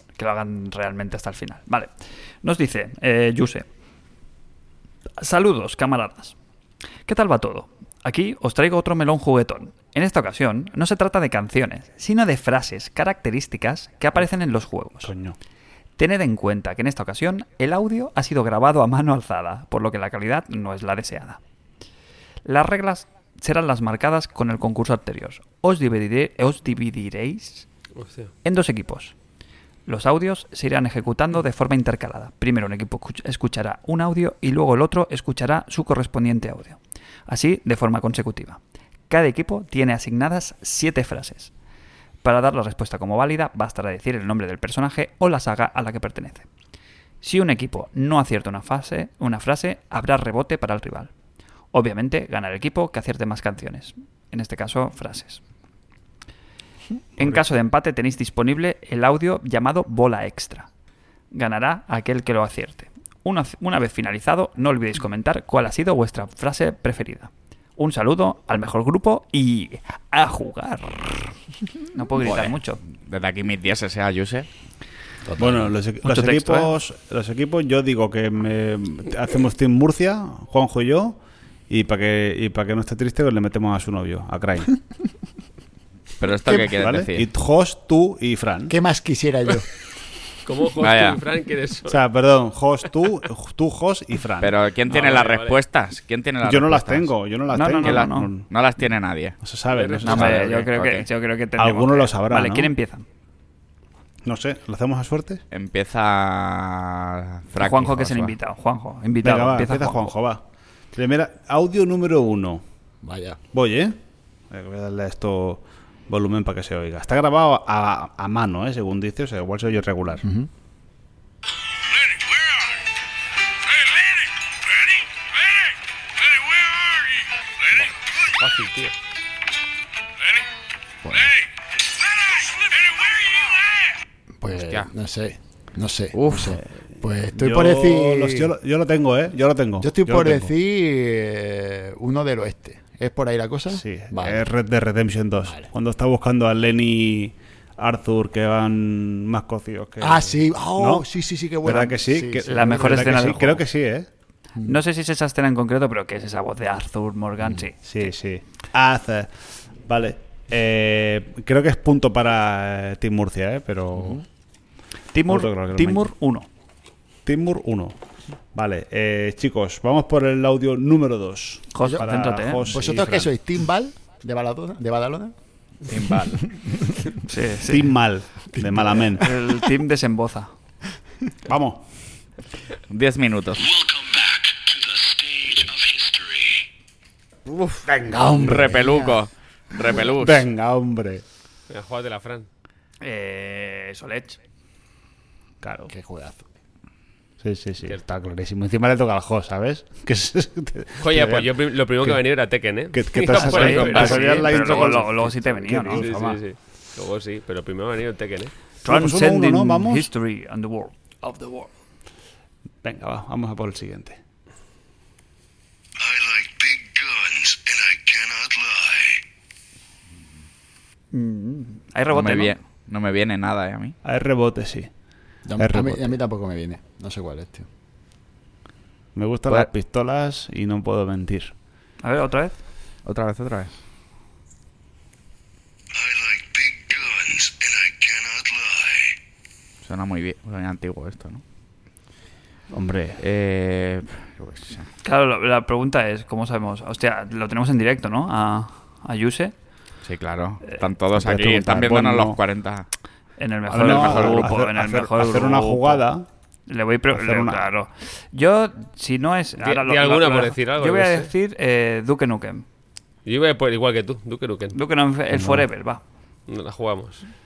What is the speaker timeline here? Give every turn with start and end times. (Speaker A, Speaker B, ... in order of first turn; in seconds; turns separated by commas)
Speaker A: 0.1-1.9, Speaker A: 2.4-3.6, Speaker A: 5.2-6.3, Speaker A: 7.1-15.1, Speaker B: 15.0-15.3, Speaker A: 16.0-21.4, Speaker A: 22.4-27.7, Speaker C: 28.0-28.3, Speaker A: 28.4-29.1, Speaker A: 29.9-41.5, Speaker A: 42.2-46.5, Speaker A: 47.2-51.1, Speaker A: 51.7-55.4, Speaker A: 57.2-60.7, Speaker A: 61.3-71.3, Speaker A: 71.9-72.8, Speaker D: 72.2-74.5, Speaker E: 75.2-75.7, Speaker B: 75.4-81.2, Speaker A: 76.0-76.7, Speaker B: 81.7-84.8, Speaker D: 86.2-87.3, Speaker B: 86.8-88.7, Speaker E: 88.7-89.7, Speaker C: 90.4-92.0, Speaker D: 90.8-91.2, Speaker B: 91.9-94.6, Speaker D: 94.4-97.1, Speaker C: 94.9-95.6, Speaker B: 96.4-98.5, Speaker A: 97.5-98.3, Speaker D: 97.8-99.4, Speaker B: 99.4-100.5, Speaker C: 99.7-100.3, Speaker D: 100.0-101.1, Speaker A: 100.0-103.0, Speaker B: 101.6-102.7, Speaker B: 104.2-105.4, Speaker D: 105.5-108.3, Speaker A: 107.6-110.1, Speaker B: 109.2-112.6, Speaker E: 113.0-113.4, Speaker B: 113.5-114.0, Speaker B: 114.5-120.2, Speaker E: 120.2-120.5, Speaker F: 121.8-122.8, Speaker F: 123.6-128.1, Speaker C: 127.8-128.9, Speaker E: 131.0-131.3, Speaker F: 131.1-131.4, Speaker F: 132.0-133.9, Speaker E: 134.4-138.5, Speaker D: 134.6-134.9, Speaker D: 136.1-136.6, Speaker B: 137.3-140.5, Speaker E: 139.8-144.5, Speaker B: 143.7-151.1, Speaker E: 145.4-145.7, Speaker E: 150.0-153.6, Speaker B: 151.6-154.1, Speaker A: 152.4-153.6, Speaker A: 154.6-158.1, Speaker B: 157.8-164.2, Speaker A: 165.1-166.5, Speaker B: 165.3-166.1, Speaker B: 167.2-168.0, Speaker B: 168.5-173.3, Speaker A: 171.7-172.8, Speaker E: 172.7-175.3, Speaker D: 175.9-176.5, Speaker A: 177.2-177.9, Speaker B: 177.7-179.3, Speaker A: 179.2-180.5, Speaker B: 181.4-181.8, Speaker D: 182.9-183.7, Speaker F: 183.6-186.7, Speaker D: 187.4-190.4, Speaker B: 187.9-188.7, Speaker E: 188.1-189.2, Speaker B: 189.9-191.2, Speaker C: 191.7-192.5, Speaker A: 193.0-194.4, Speaker B: 195.6-195.9, Speaker E: 195.9-196.5, Speaker B: 197.4-202.2, Speaker C: 201.0-205.0, Speaker B: 202.9-206.4, Speaker A: 203.3-206.1, Speaker D: 203.7-204.2, Speaker C: 205.9-208.5, Speaker A: 208.8-211.7, Speaker B: 208.8-210.1, Speaker B: 212.8-214.2, Speaker F: 216.0-219.2, Speaker A: 221.1-222.5, Speaker D: 222.1-224.0, Speaker B: 224.0-224.9, Speaker E: 225.4-227.7, Speaker B: 225.6-226.0, Speaker B: 229.1-231.5, Speaker A: 232.0-232.6, Speaker D: 233.0-233.7, Speaker F: 235.9-239.2, Speaker D: 239.8-241.4, Speaker B: 242.7-243.2, Speaker D: 243.2-244.9, Speaker A: 245.0-249.5, Speaker D: 250.0-252.9, Speaker B: 251.2-252.4, Speaker A: 253.4-256.0, Speaker B: 253.7-256.3, Speaker D: 253.8-254.5, Speaker A: 256.7-262.6, Speaker B: 257.1-257.7, Speaker C: 259.6-261.3, Speaker C: 263.2-264.8, Speaker A: 264.7-266.0, Speaker B: 265.3-265.6, Speaker C: 266.5-267.2